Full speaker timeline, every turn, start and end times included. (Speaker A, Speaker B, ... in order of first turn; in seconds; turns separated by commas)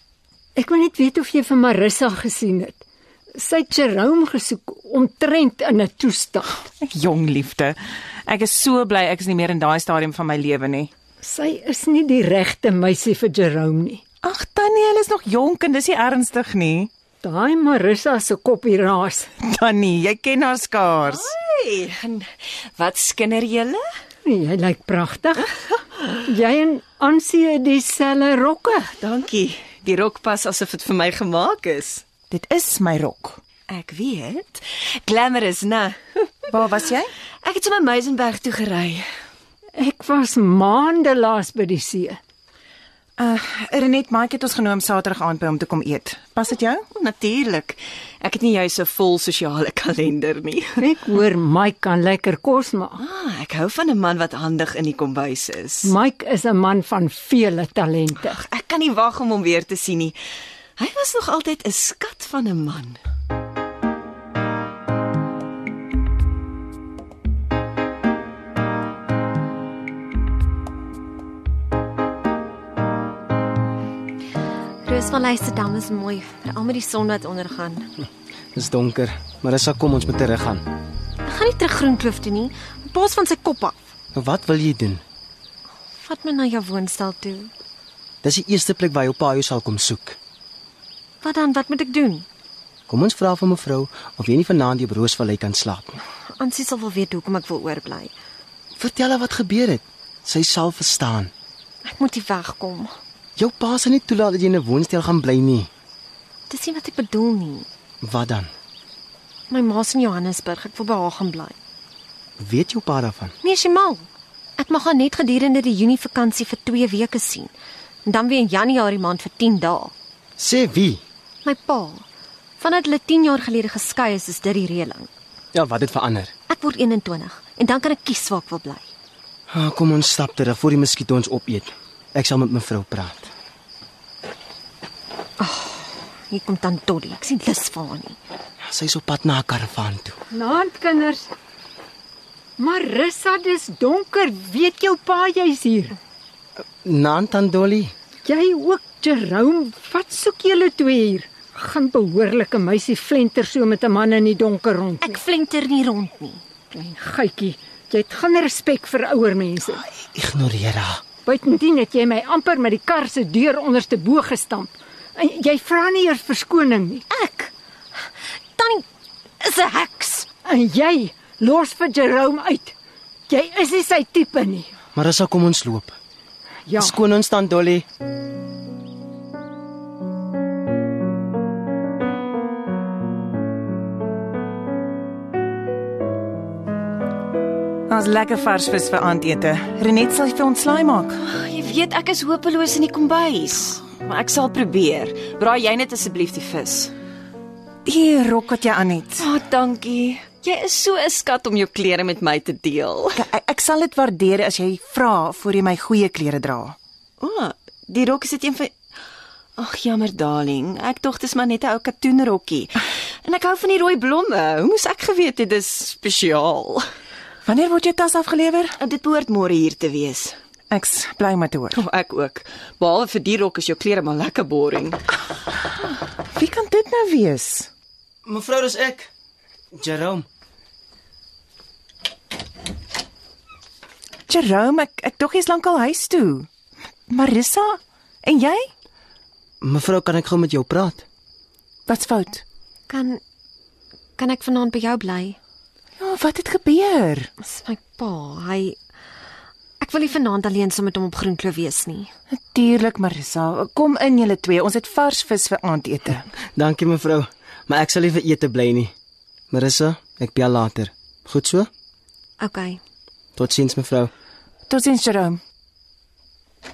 Speaker A: 0.6-2.8, Speaker A: 3.4-6.5, Speaker B: 6.8-10.9, Speaker A: 11.2-14.0, Speaker B: 14.2-16.9, Speaker A: 17.2-19.3, Speaker B: 19.4-21.3, Speaker C: 21.0-22.3, Speaker C: 22.8-23.8, Speaker A: 24.2-25.5, Speaker A: 26.2-28.9, Speaker C: 29.0-32.0, Speaker B: 32.3-33.4, Speaker C: 33.7-36.0, Speaker B: 36.5-37.1, Speaker C: 37.4-39.1, Speaker A: 39.8-42.2, Speaker B: 43.2-46.9, Speaker C: 47.0-50.9, Speaker A: 50.8-53.0, Speaker C: 53.0-56.0, Speaker A: 55.9-58.4, Speaker C: 58.2-60.2, Speaker C: 60.8-63.0, Speaker D: 74.8-77.9, Speaker E: 78.5-80.6, Speaker D: 81.2-83.8, Speaker E: 84.2-85.0, Speaker D: 86.0-87.5, Speaker E: 88.2-90.2, Speaker D: 91.2-92.3, Speaker E: 92.9-96.0, Speaker D: 96.3-98.1, Speaker E: 98.8-101.3, Speaker D: 101.8-102.9, Speaker E: 103.4-105.7, Speaker D: 106.5-107.7, Speaker E: 108.0-108.5, Speaker D: 109.5-111.6, Speaker E: 112.4-113.3, Speaker D: 113.4-114.1, Speaker D: 114.6-117.5, Speaker D: 118.0-119.9, Speaker E: 120.4-121.0, Speaker D: 121.4-122.0, Speaker D: 122.6-125.1, Speaker E: 125.5-126.3, Speaker D: 126.5-128.9, Speaker E: 129.5-133.3, Speaker D: 135.4-138.2, Speaker E: 138.6-140.2, Speaker A: 140.3-141.3, Speaker A: 142.6-146.0, Speaker E: 146.8-147.9, Speaker A: 148.3-155.1, Speaker D: 155.0-156.4, Speaker A: 156.7-159.8, Speaker E: 160.0-161.0, Speaker A: 161.3-167.0, Speaker D: 167.1-167.5, Speaker D: 168.6-168.9, Speaker D: 169.4-170.3, Speaker A: 170.5-172.7, Speaker A: 173.3-174.7, Speaker E: 174.9-176.0, Speaker A: 176.7-176.9, Speaker E: 176.8-177.8, Speaker B: 187.9-191.2, Speaker C: 191.3-196.9, Speaker B: 197.8-199.3, Speaker C: 199.2-203.2, Speaker B: 203.2-206.8, Speaker C: 207.2-208.7, Speaker C: 209.6-216.9, Speaker B: 217.4-218.8, Speaker C: 218.8-220.4, Speaker B: 220.7-221.8, Speaker C: 221.8-225.0, Speaker B: 226.4-227.7, Speaker E: 228.2-229.1, Speaker E: 229.8-230.3, Speaker B: 234.3-236.5, Speaker B: 237.1-238.7, Speaker E: 239.6-241.0, Speaker B: 241.9-242.4, Speaker D: 242.9-243.2, Speaker D: 244.2-245.2, Speaker B: 246.0-247.3, Speaker D: 247.5-248.7, Speaker D: 249.8-252.1, Speaker B: 252.3-256.3, Speaker E: 256.6-258.9, Speaker E: 259.5-261.7, Speaker D: 262.4-262.8, Speaker E: 263.4-264.1, Speaker B: 264.7-265.4